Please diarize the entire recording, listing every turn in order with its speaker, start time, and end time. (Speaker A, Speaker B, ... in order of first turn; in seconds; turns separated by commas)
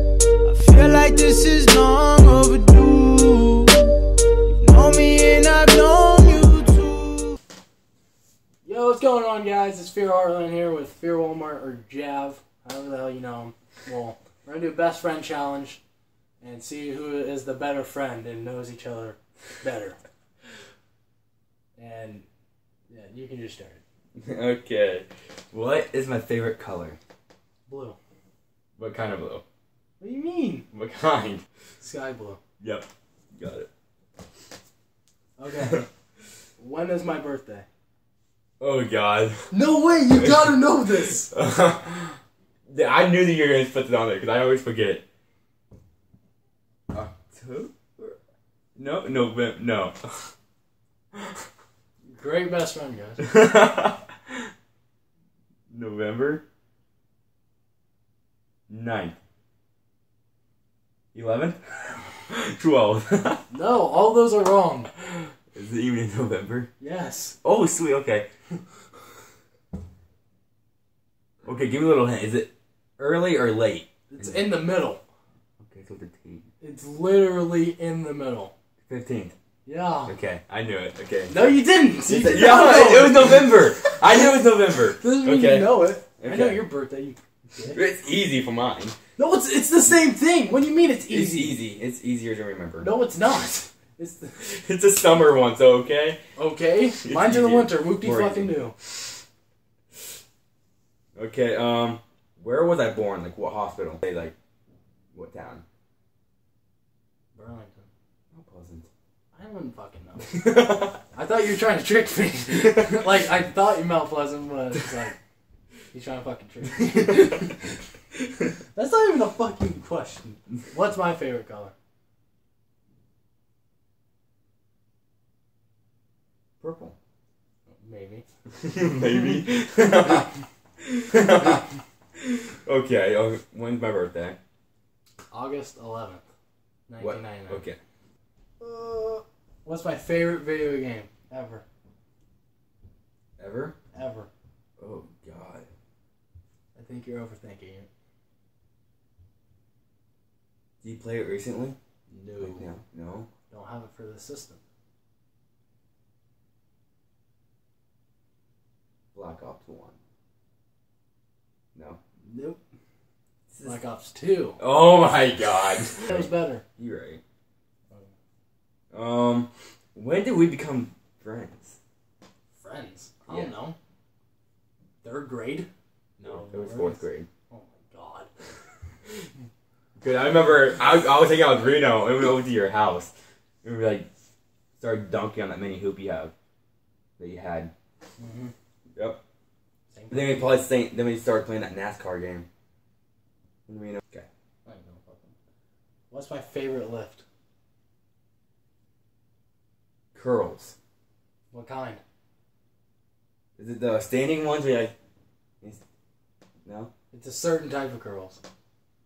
Speaker A: 0.5-3.9, Speaker A: 4.5-7.4, Speaker B: 8.6-15.8, Speaker B: 16.4-20.0, Speaker B: 21.8-22.2, Speaker B: 22.9-23.8, Speaker C: 24.1-27.0, Speaker B: 27.7-28.0, Speaker C: 28.8-29.4, Speaker B: 30.0-30.6, Speaker C: 30.7-31.4, Speaker B: 31.8-32.4, Speaker C: 32.6-33.7, Speaker B: 35.4-35.9, Speaker C: 35.6-35.9, Speaker B: 36.6-37.7, Speaker C: 38.6-39.5, Speaker B: 39.5-41.3, Speaker C: 40.1-40.5, Speaker C: 41.2-45.0, Speaker C: 46.9-48.2, Speaker C: 48.8-50.3, Speaker B: 52.1-53.3, Speaker C: 53.2-54.5, Speaker C: 55.7-56.4, Speaker C: 58.7-59.2, Speaker C: 61.1-63.4, Speaker B: 63.5-64.9, Speaker C: 64.9-66.7, Speaker B: 66.8-67.3, Speaker C: 67.4-68.3, Speaker C: 71.4-74.5, Speaker B: 74.1-75.0, Speaker C: 75.6-76.5, Speaker B: 76.6-78.5, Speaker C: 78.9-79.3, Speaker B: 79.6-80.2, Speaker C: 80.1-86.6, Speaker B: 81.3-83.6, Speaker B: 84.9-87.8, Speaker C: 87.7-89.0, Speaker B: 89.2-91.6, Speaker C: 91.1-92.9, Speaker B: 92.8-94.4, Speaker C: 94.4-96.2, Speaker B: 96.3-98.7, Speaker C: 97.0-99.1, Speaker C: 101.2-104.3, Speaker C: 105.1-105.6, Speaker B: 107.3-107.9, Speaker C: 108.3-108.9, Speaker B: 109.3-110.5, Speaker C: 110.3-111.0, Speaker B: 111.1-115.2, Speaker B: 115.9-117.8, Speaker B: 118.7-121.7, Speaker C: 126.6-126.9, Speaker B: 127.7-128.2, Speaker C: 128.6-131.6, Speaker C: 132.2-134.4, Speaker B: 135.3-136.2, Speaker B: 136.9-137.7, Speaker C: 137.0-137.8, Speaker B: 138.6-141.6, Speaker C: 143.4-143.8, Speaker B: 143.9-144.3, Speaker C: 144.8-145.7, Speaker B: 146.7-147.9, Speaker C: 150.8-151.8, Speaker B: 152.1-152.7, Speaker C: 152.4-153.3, Speaker B: 153.5-154.6, Speaker C: 159.1-159.9, Speaker B: 162.2-162.6, Speaker C: 163.5-163.8, Speaker B: 163.6-164.6, Speaker C: 164.6-167.2, Speaker B: 166.0-166.6, Speaker C: 168.9-171.8, Speaker B: 172.5-173.8, Speaker C: 173.3-173.5, Speaker B: 175.0-178.3, Speaker C: 176.2-177.3, Speaker C: 180.0-184.1, Speaker C: 184.8-186.3, Speaker C: 187.2-187.7, Speaker B: 188.2-188.5, Speaker C: 188.9-189.2, Speaker B: 189.9-190.6, Speaker C: 190.1-192.4, Speaker C: 193.7-194.3, Speaker B: 194.6-195.3, Speaker B: 196.1-197.2, Speaker C: 200.1-200.7, Speaker B: 201.5-202.0, Speaker C: 203.6-204.9, Speaker C: 206.6-206.9, Speaker B: 207.1-208.4